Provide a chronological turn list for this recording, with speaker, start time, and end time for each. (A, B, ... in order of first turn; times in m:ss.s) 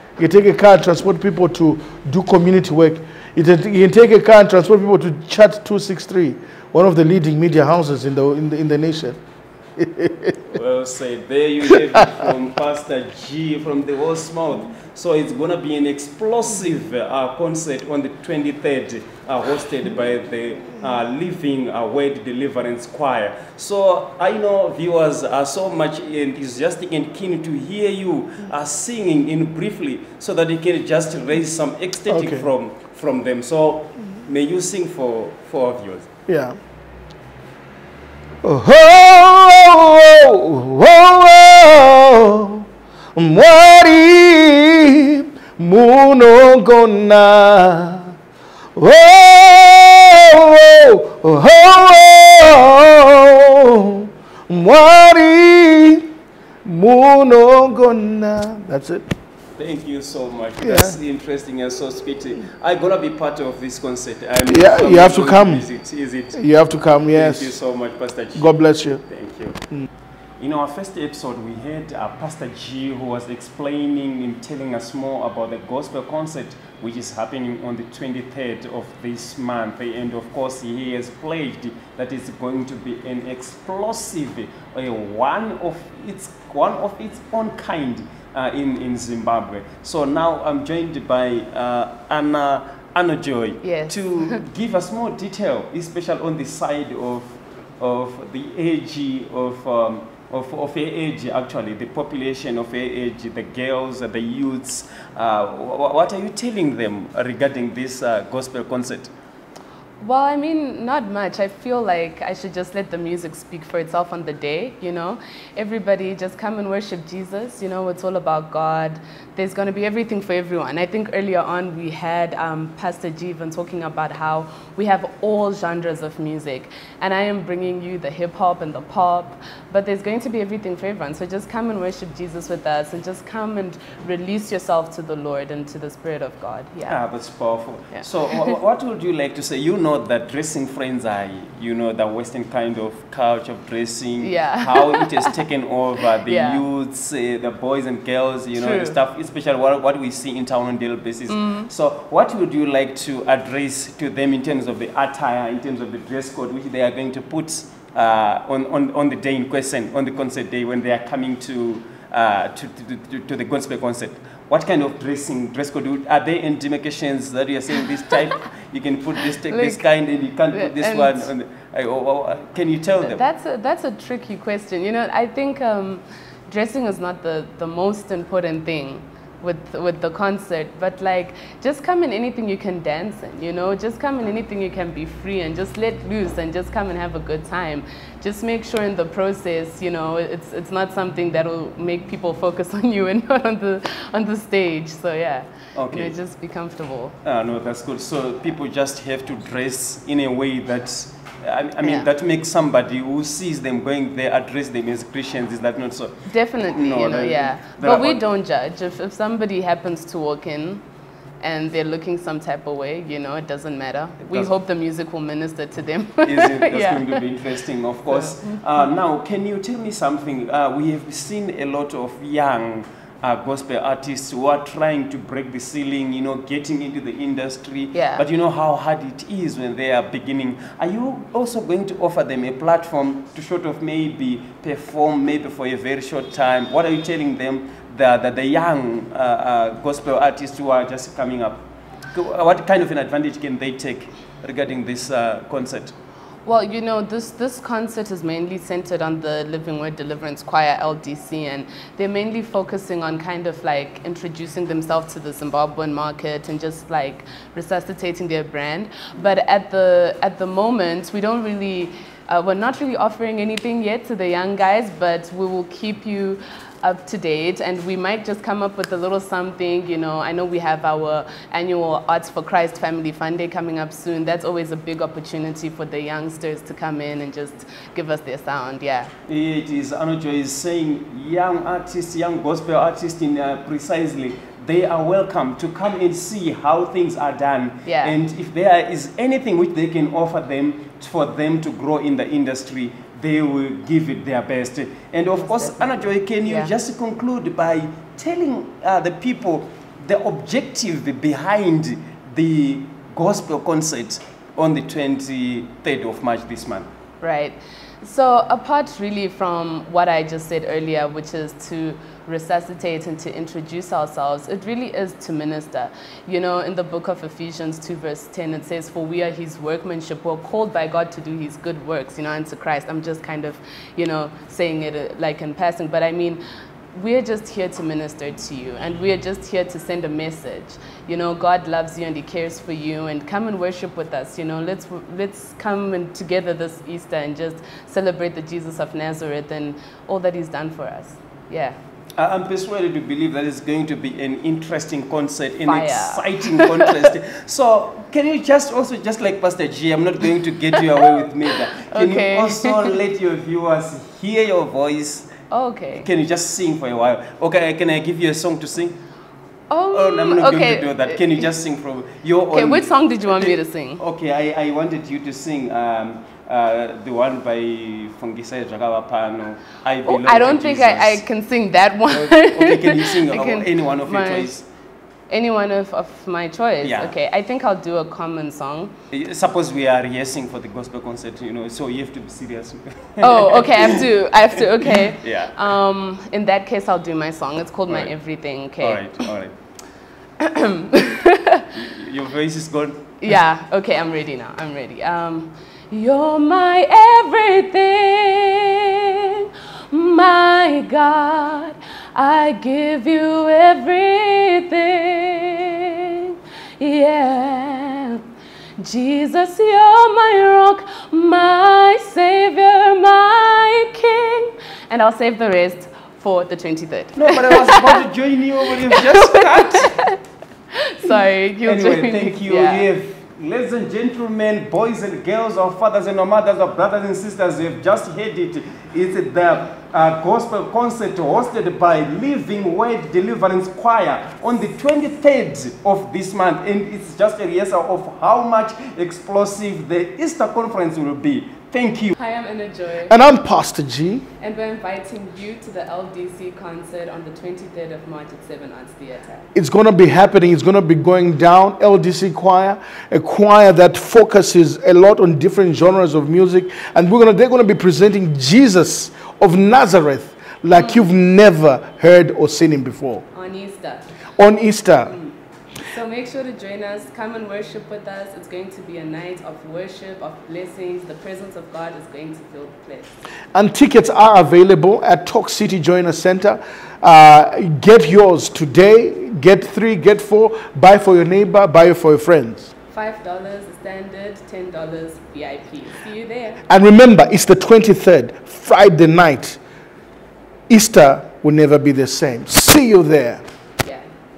0:00.2-0:09.2 A
0:09.8-0:10.3 A
0:10.5-0:36.1 B
0:32.1-0:32.4 A
0:36.3-0:36.6 A
0:38.4-0:42.6 A
0:43.1-0:48.1 A
0:48.7-0:56.1 A
0:56.6-0:59.1 A
0:59.6-1:06.4 B
1:00.6-1:01.0 A
1:04.5-1:05.6 A
1:06.3-1:07.5 A
1:07.0-1:09.6 B
1:08.3-1:09.0 A
1:10.4-1:49.1 B
1:33.6-1:34.4 C
1:50.0-2:17.0 C
2:16.9-2:53.2 B
2:17.9-2:18.5 C
2:24.2-2:25.3 C
2:26.2-2:26.6 C
2:28.6-2:29.0 C
2:31.3-2:31.7 C
2:49.5-2:49.8 C
2:50.5-2:51.3 C
2:53.0-3:17.2 C
3:15.7-3:16.1 B
3:17.2-3:28.2 B
3:21.8-3:22.1 C
3:26.3-3:30.8 C
3:31.4-3:37.2 C
3:36.2-4:05.9 B
3:38.1-3:38.4 C
3:47.9-3:48.2 C
4:06.4-4:39.1 C
4:39.3-5:06.9 B
4:47.8-4:48.1 C
4:55.4-4:56.7 C
5:07.2-5:26.4 C
5:26.9-5:41.8 C
5:42.2-5:55.3 B
5:45.6-5:47.1 C
5:51.9-5:52.9 C
5:55.5-5:56.1 C
5:56.0-5:59.0 B
5:59.7-6:01.5 C
5:59.9-6:11.2 B
6:02.5-6:04.0 C
6:10.0-6:14.6 C
6:12.1-6:14.6 B
6:15.3-6:18.9 C
6:16.8-6:17.1 B
6:19.1-6:24.0 B
6:23.2-6:29.2 C
6:24.9-6:25.5 B
6:27.9-6:29.5 B
6:30.4-6:31.6 C
6:31.7-6:33.1 B
6:33.2-6:48.2 C
6:48.8-6:58.0 C
6:57.1-7:00.0 B
6:58.8-7:00.2 C
7:00.9-7:02.9 C
7:01.6-7:22.2 B
7:22.2-7:23.2 C
7:23.1-7:24.2 A
7:24.4-7:29.5 C
7:29.5-7:43.2 A
7:40.7-7:41.0 C
7:43.3-7:44.0 C
7:44.4-7:45.1 A
7:45.0-7:53.1 C
7:53.5-8:02.7 A
8:02.9-8:06.6 C
8:06.7-8:09.6 A
8:10.7-8:13.4 A
8:13.8-8:14.1 C